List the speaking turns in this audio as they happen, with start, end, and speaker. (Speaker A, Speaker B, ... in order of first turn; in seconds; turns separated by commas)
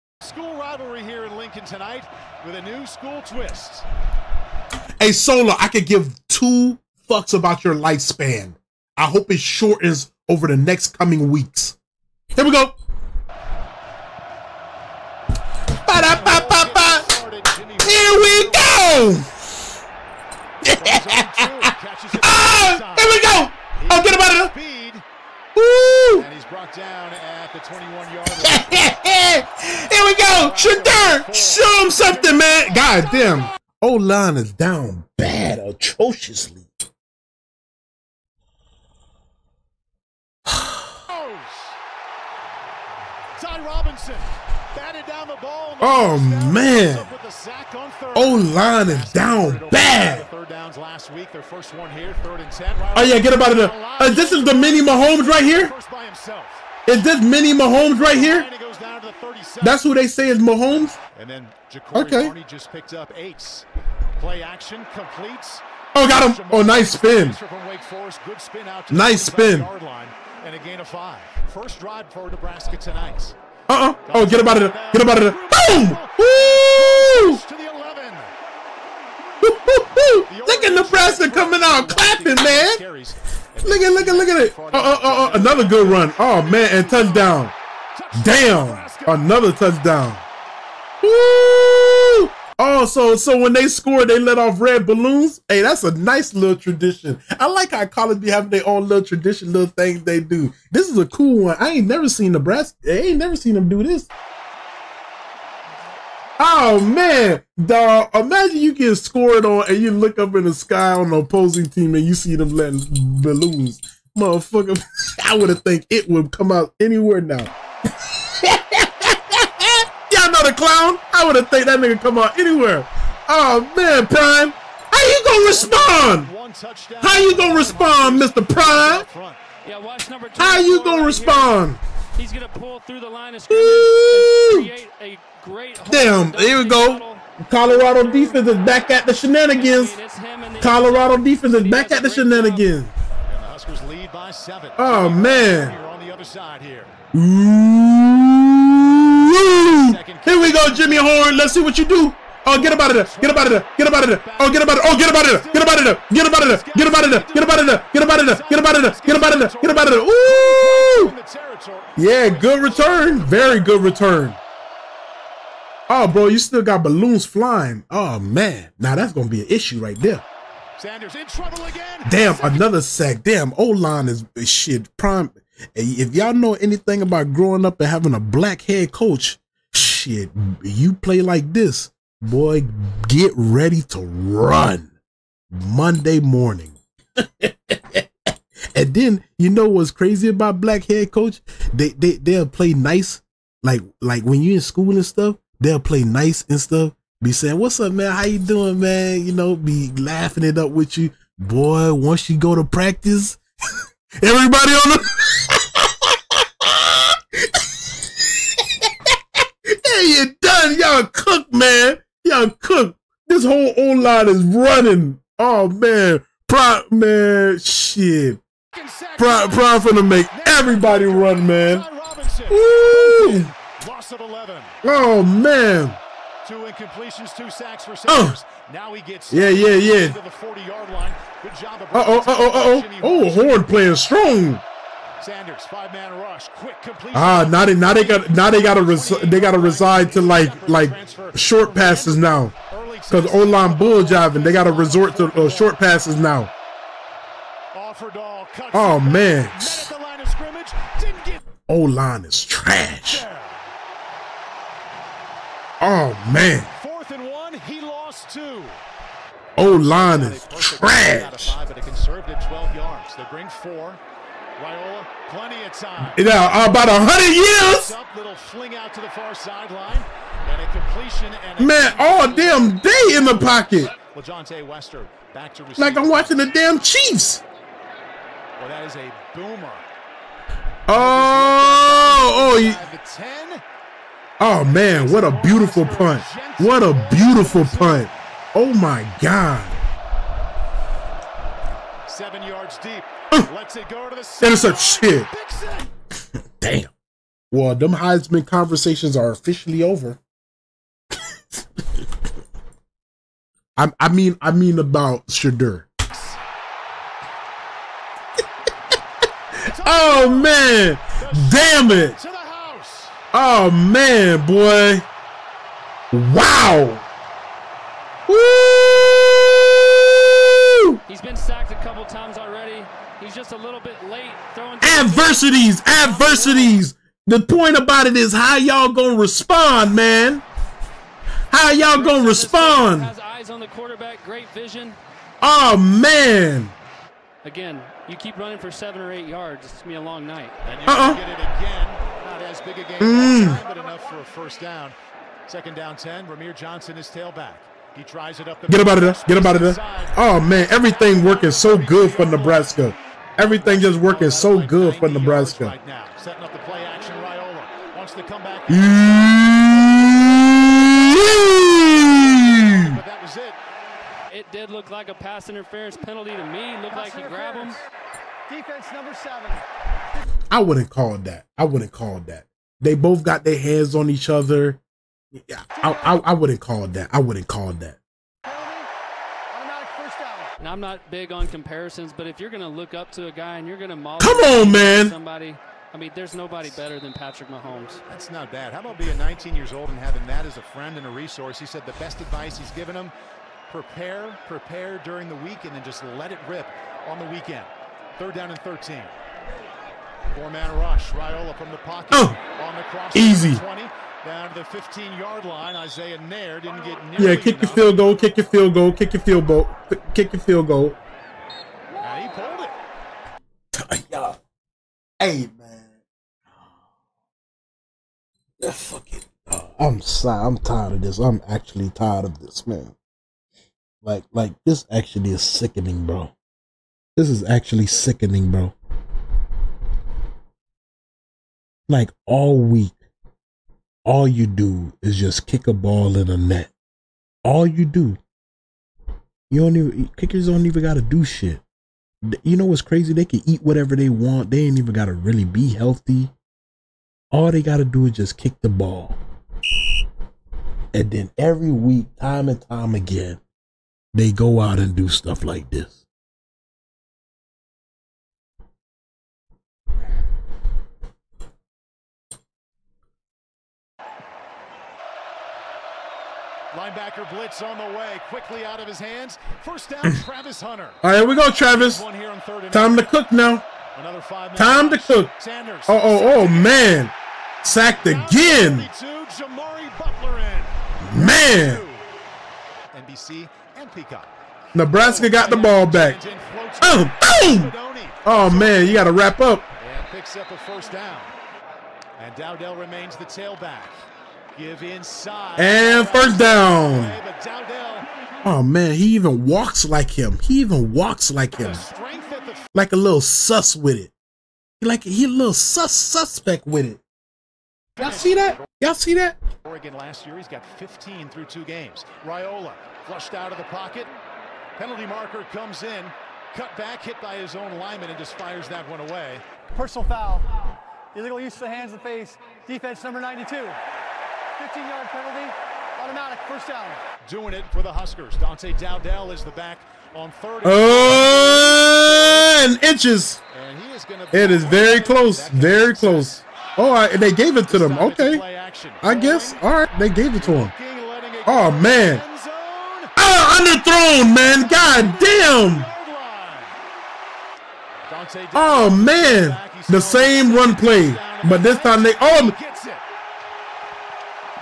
Speaker A: 0.2-3.9, Speaker B: 5.0-11.8, Speaker B: 12.3-12.8, Speaker B: 15.7-17.1, Speaker A: 15.9-19.0, Speaker B: 17.8-19.5, Speaker B: 20.7-21.6, Speaker A: 20.8-25.0, Speaker B: 22.1-24.5, Speaker B: 25.6-26.3, Speaker A: 26.1-28.9, Speaker B: 28.3-36.7, Speaker A: 30.2-33.0, Speaker B: 40.5-40.9, Speaker A: 41.1-41.8, Speaker A: 43.4-56.7, Speaker B: 45.8-47.1, Speaker B: 48.1-50.3, Speaker B: 53.0-55.7, Speaker B: 56.9-58.5, Speaker A: 57.6-59.8, Speaker B: 59.6-61.0, Speaker A: 61.1-73.4, Speaker B: 61.9-62.3, Speaker B: 66.0-67.4, Speaker B: 68.9-69.7, Speaker B: 73.7-77.4, Speaker A: 74.0-78.3, Speaker B: 79.4-82.8, Speaker A: 80.3-89.3, Speaker B: 83.6-87.5, Speaker B: 88.2-90.2, Speaker B: 91.0-104.1, Speaker B: 106.4-117.5, Speaker B: 118.0-126.3, Speaker A: 125.4-129.4, Speaker B: 127.0-129.1, Speaker C: 129.6-131.7, Speaker B: 130.4-131.8, Speaker C: 132.2-142.7, Speaker B: 133.5-134.7, Speaker B: 135.9-140.0, Speaker B: 140.6-142.9, Speaker A: 143.3-146.9, Speaker B: 144.8-145.8, Speaker B: 147.1-161.1, Speaker A: 149.5-151.2, Speaker A: 152.5-163.9, Speaker B: 162.0-164.4, Speaker B: 165.9-170.2, Speaker A: 170.8-172.7, Speaker B: 172.1-184.9, Speaker B: 185.5-188.1, Speaker B: 188.7-203.4, Speaker B: 204.2-206.1, Speaker B: 206.6-207.2, Speaker B: 207.8-208.4, Speaker B: 209.7-218.4, Speaker A: 218.7-224.8, Speaker B: 219.2-221.8, Speaker B: 222.5-223.5, Speaker B: 224.8-226.0, Speaker A: 226.4-233.7, Speaker B: 228.1-228.4, Speaker B: 229.3-230.2, Speaker B: 231.9-234.6, Speaker A: 235.2-245.8, Speaker B: 237.1-242.5, Speaker B: 243.1-246.5, Speaker A: 247.7-251.4, Speaker B: 248.7-249.9, Speaker B: 251.7-253.2, Speaker A: 253.0-253.6, Speaker B: 255.8-256.7, Speaker A: 256.7-258.8, Speaker B: 259.6-261.6, Speaker A: 259.6-264.0, Speaker A: 264.6-266.2, Speaker B: 266.0-267.9, Speaker A: 266.8-276.4, Speaker B: 271.6-273.9, Speaker B: 275.8-277.4, Speaker A: 278.6-279.9, Speaker B: 280.9-282.8, Speaker A: 280.9-283.6, Speaker B: 284.4-289.8, Speaker A: 284.6-288.1, Speaker A: 292.1-295.9, Speaker B: 294.4-295.3, Speaker B: 296.6-296.9, Speaker B: 297.5-300.2, Speaker B: 303.8-305.9, Speaker A: 306.1-306.4, Speaker A: 309.6-310.6, Speaker B: 309.7-312.2, Speaker A: 311.2-313.2, Speaker B: 313.3-315.1, Speaker B: 316.1-317.1, Speaker B: 318.3-321.0, Speaker C: 321.1-326.8, Speaker B: 324.8-330.4, Speaker B: 331.5-333.1, Speaker C: 331.8-335.0, Speaker B: 335.4-336.7, Speaker C: 337.4-340.5, Speaker A: 340.6-363.6, Speaker B: 340.9-341.2, Speaker B: 343.0-343.6, Speaker B: 348.7-355.8, Speaker B: 358.7-362.9, Speaker C: 364.3-367.8, Speaker D: 366.9-367.8, Speaker D: 368.5-369.6, Speaker B: 370.5-374.8, Speaker B: 375.3-378.0, Speaker D: 375.8-376.2, Speaker D: 378.4-378.9, Speaker D: 379.5-380.5, Speaker C: 380.6-388.0, Speaker B: 384.2-385.1, Speaker A: 388.1-393.1, Speaker A: 393.7-399.1, Speaker A: 400.3-408.1, Speaker B: 402.1-402.4, Speaker B: 403.1-403.6, Speaker B: 407.2-411.0, Speaker A: 412.0-412.8, Speaker B: 413.7-414.4, Speaker B: 415.2-415.9, Speaker B: 418.6-423.0, Speaker B: 424.0-426.3, Speaker B: 427.2-428.8, Speaker B: 431.9-433.0, Speaker B: 434.1-436.7, Speaker B: 437.4-438.2, Speaker B: 439.5-441.6, Speaker B: 442.3-446.3, Speaker B: 447.3-449.2, Speaker B: 450.9-453.4, Speaker B: 454.1-456.1, Speaker A: 466.7-471.0, Speaker B: 471.0-472.0, Speaker A: 471.7-473.1, Speaker B: 472.7-473.7, Speaker A: 473.9-477.0, Speaker B: 474.6-475.3, Speaker B: 475.9-477.1, Speaker B: 477.6-478.9, Speaker A: 477.9-482.1, Speaker B: 481.0-481.8, Speaker A: 482.9-484.3, Speaker B: 484.8-486.2, Speaker A: 484.9-489.2, Speaker B: 486.8-487.7, Speaker B: 488.2-489.7, Speaker A: 489.8-491.3, Speaker A: 492.2-494.0, Speaker A: 494.6-498.1, Speaker B: 495.6-497.2, Speaker B: 498.4-501.9, Speaker A: 501.6-502.7, Speaker B: 502.7-504.1, Speaker B: 504.8-507.0, Speaker A: 508.0-508.7, Speaker B: 508.0-509.4, Speaker A: 509.6-514.1, Speaker A: 514.8-519.4, Speaker D: 519.7-520.5, Speaker D: 521.1-523.8, Speaker D: 524.6-527.0, Speaker A: 527.2-532.6, Speaker B: 530.6-533.4, Speaker A: 533.5-536.5, Speaker B: 534.3-538.4, Speaker A: 537.7-539.6, Speaker B: 539.0-540.7, Speaker A: 540.4-543.1, Speaker B: 541.5-542.2, Speaker B: 543.2-545.9, Speaker A: 544.5-546.8, Speaker A: 548.1-553.0, Speaker B: 548.5-552.5